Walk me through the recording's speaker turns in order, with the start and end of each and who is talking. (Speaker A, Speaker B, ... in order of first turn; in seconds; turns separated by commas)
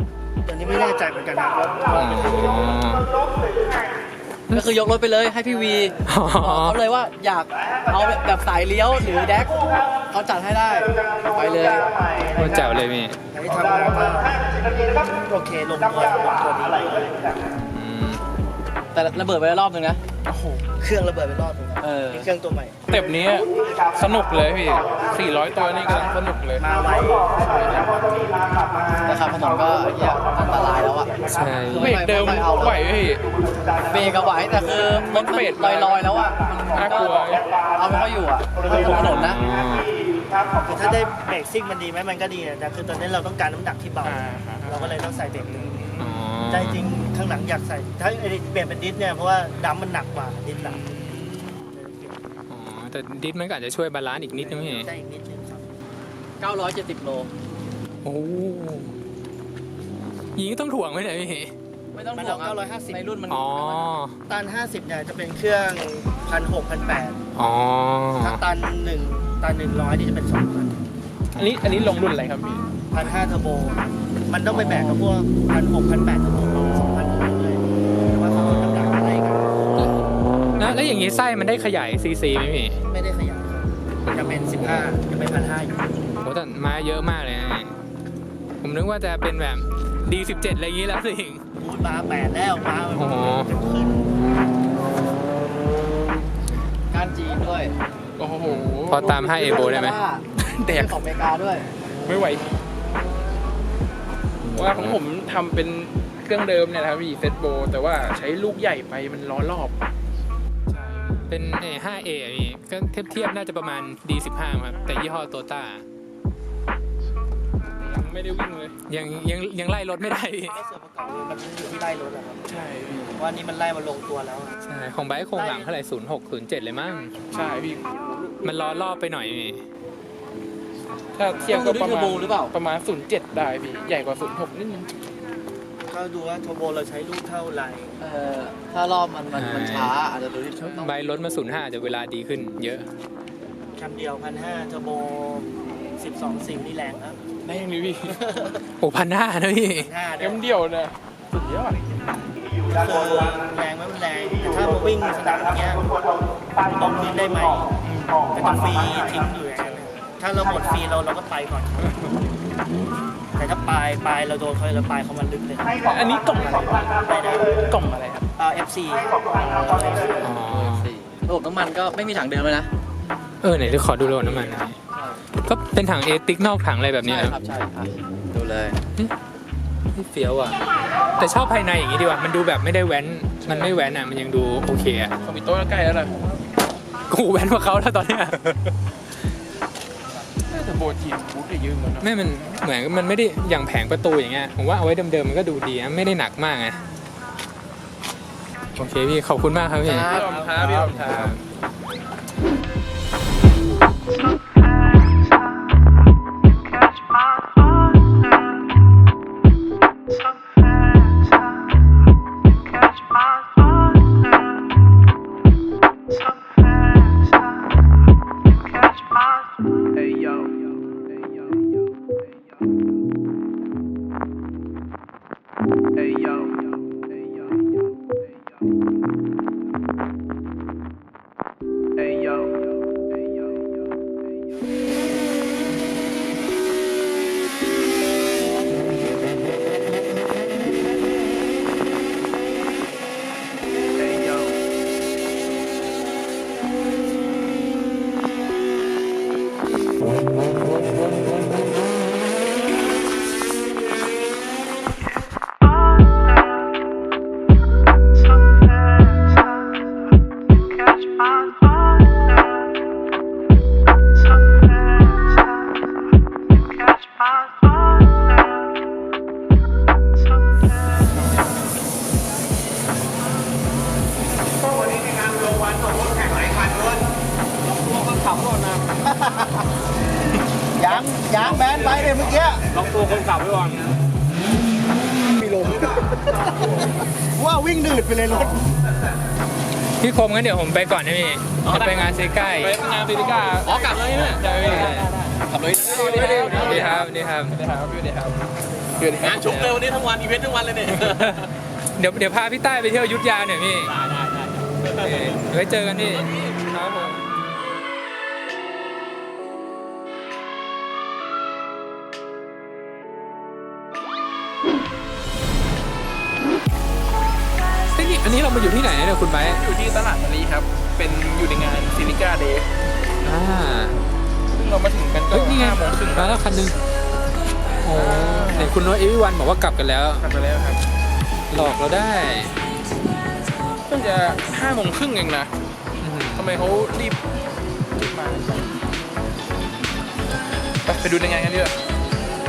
Speaker A: 0.5-2.6, Speaker B: 1.9-3.1, Speaker C: 4.5-11.9, Speaker B: 6.1-6.8, Speaker B: 12.4-13.2, Speaker A: 13.3-17.3, Speaker B: 17.7-18.2, Speaker C: 18.9-20.0, Speaker D: 20.2-20.6, Speaker A: 20.8-22.8, Speaker C: 21.8-22.3, Speaker D: 22.9-26.6, Speaker A: 26.6-27.8, Speaker D: 27.5-27.8, Speaker C: 29.1-32.8, Speaker B: 31.3-31.9, Speaker D: 31.8-33.2, Speaker C: 33.9-39.4, Speaker D: 34.7-36.2, Speaker D: 36.7-37.5, Speaker B: 38.8-39.9, Speaker A: 40.6-45.9, Speaker D: 44.0-46.1, Speaker B: 46.0-46.8, Speaker A: 46.5-50.9, Speaker D: 50.5-51.6, Speaker A: 51.7-52.2, Speaker B: 52.5-54.9, Speaker A: 54.4-55.7, Speaker C: 56.4-57.3, Speaker B: 58.0-59.0, Speaker B: 60.4-61.5, Speaker C: 61.9-64.0, Speaker A: 62.1-63.0, Speaker B: 63.3-64.2, Speaker A: 64.3-67.2, Speaker B: 67.4-68.4, Speaker A: 68.2-70.8, Speaker D: 71.3-72.6, Speaker A: 72.9-79.6, Speaker B: 74.5-74.9, Speaker B: 78.3-79.0, Speaker B: 80.6-82.8, Speaker A: 82.8-85.9, Speaker B: 84.1-84.9, Speaker B: 86.2-87.7, Speaker B: 88.6-91.4, Speaker A: 91.6-94.1, Speaker B: 92.9-93.5, Speaker C: 96.9-97.7, Speaker D: 98.2-99.1, Speaker B: 98.5-100.0, Speaker C: 98.9-101.7, Speaker D: 100.4-101.0, Speaker D: 102.0-102.5, Speaker B: 104.4-105.0, Speaker D: 104.5-109.8, Speaker D: 110.7-111.3, Speaker B: 111.3-115.8, Speaker D: 117.8-118.8, Speaker B: 118.9-120.6, Speaker A: 120.5-122.4, Speaker D: 122.5-123.2, Speaker A: 123.2-124.6, Speaker B: 124.7-127.2, Speaker A: 125.3-125.8, Speaker D: 127.3-128.4, Speaker B: 128.4-129.6, Speaker D: 131.2-134.9, Speaker C: 131.4-132.5, Speaker A: 135.9-138.0, Speaker C: 138.0-141.3, Speaker B: 139.3-139.9, Speaker B: 140.6-142.9, Speaker A: 143.8-147.2, Speaker D: 147.4-148.2, Speaker A: 148.1-148.6, Speaker B: 148.8-149.9, Speaker A: 149.7-150.4, Speaker D: 150.2-152.0, Speaker A: 152.7-155.8, Speaker A: 156.7-157.7, Speaker D: 157.8-158.3, Speaker A: 158.3-161.9, Speaker A: 163.4-166.0, Speaker D: 165.9-167.0, Speaker A: 166.9-167.7, Speaker D: 167.6-168.3, Speaker A: 168.4-170.1, Speaker C: 169.6-172.7, Speaker B: 170.2-170.9, Speaker B: 173.4-174.8, Speaker C: 173.8-175.2, Speaker B: 175.4-177.4, Speaker C: 177.0-178.8, Speaker B: 179.9-180.6, Speaker B: 181.2-185.2, Speaker D: 183.4-183.8, Speaker D: 185.2-186.2, Speaker B: 187.1-188.5, Speaker D: 190.5-192.1, Speaker B: 192.0-196.8, Speaker B: 198.8-201.4, Speaker C: 199.8-200.9, Speaker D: 200.1-201.2, Speaker A: 200.2-200.7, Speaker E: 274.7-277.0, Speaker E: 277.6-279.7, Speaker E: 280.8-282.7, Speaker E: 285.1-288.6, Speaker B: 290.0-292.8, Speaker C: 291.6-292.1, Speaker D: 292.6-295.1, Speaker C: 293.6-297.1, Speaker B: 294.4-295.1, Speaker D: 295.8-298.4, Speaker B: 296.2-297.6, Speaker D: 299.0-299.8, Speaker C: 299.0-301.5, Speaker B: 302.0-303.9, Speaker C: 303.9-305.4, Speaker B: 305.0-307.2, Speaker D: 306.2-306.6, Speaker B: 317.9-319.6, Speaker D: 319.6-322.7, Speaker B: 323.2-324.0, Speaker D: 324.5-326.6, Speaker B: 325.3-326.8, Speaker B: 327.8-330.2, Speaker D: 327.9-328.7, Speaker D: 330.2-330.8, Speaker B: 331.5-332.5, Speaker D: 333.9-335.5, Speaker B: 336.0-336.6, Speaker D: 336.4-337.2, Speaker D: 337.9-338.7, Speaker D: 340.9-341.7